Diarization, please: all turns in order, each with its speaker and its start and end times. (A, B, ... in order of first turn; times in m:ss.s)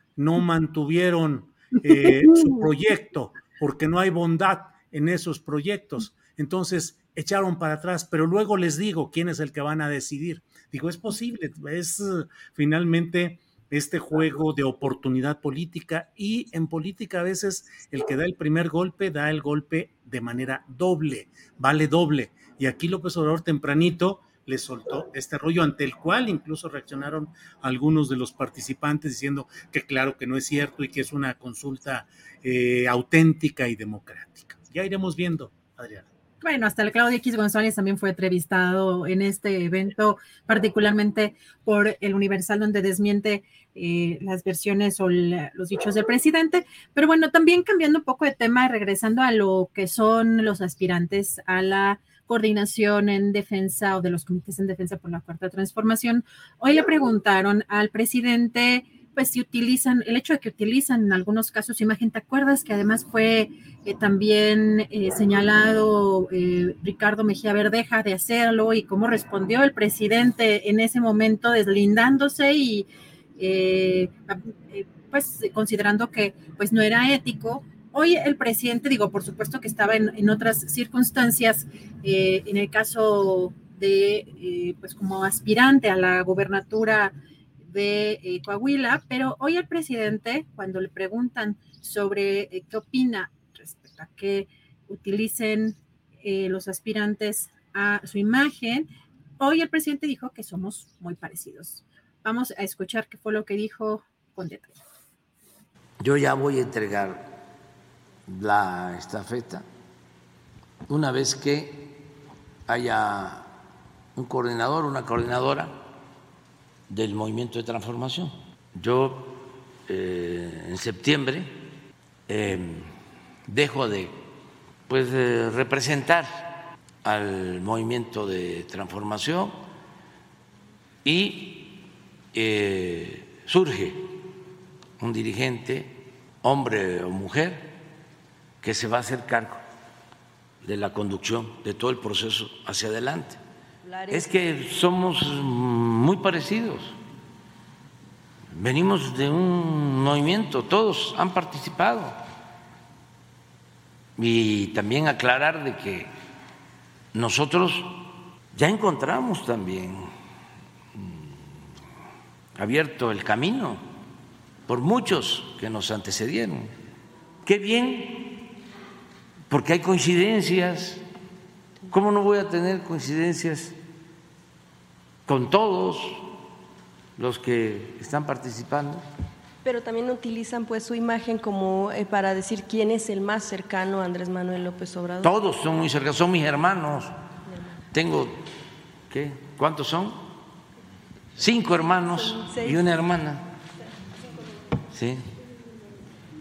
0:00.2-0:36.1 A
0:36.4-1:27.2 B
1:27.7-1:44.8 B
1:46.0-1:47.3 C
1:48.3-1:49.7 C
1:50.9-1:52.0 C
1:52.7-1:53.5 C
1:54.2-1:55.8 C
1:56.9-2:01.6 C
2:02.3-2:02.9 C
2:03.5-2:04.2 C
2:04.9-2:09.6 C
2:11.0-2:11.8 C
2:12.3-2:14.1 C
2:15.0-2:17.7 C
2:18.6-2:19.6 C
2:20.6-2:23.4 C
2:23.8-2:24.3 D
2:24.1-2:27.0 C
2:28.5-2:32.2 C
2:34.2-2:36.1 C
2:37.1-2:40.1 C
2:40.9-2:41.5 C
2:42.6-2:43.9 C
2:44.7-2:46.8 C
2:47.4-2:48.4 C
2:49.5-2:51.0 C
2:51.9-2:53.8 C
2:55.3-2:56.3 C
2:57.2-2:59.0 C
2:59.6-3:05.3 D
3:05.2-3:07.2 C
3:07.9-3:08.4 C
3:09.1-3:10.3 C
3:11.4-3:13.5 C
3:11.8-3:12.9 D
3:14.9-3:15.3 C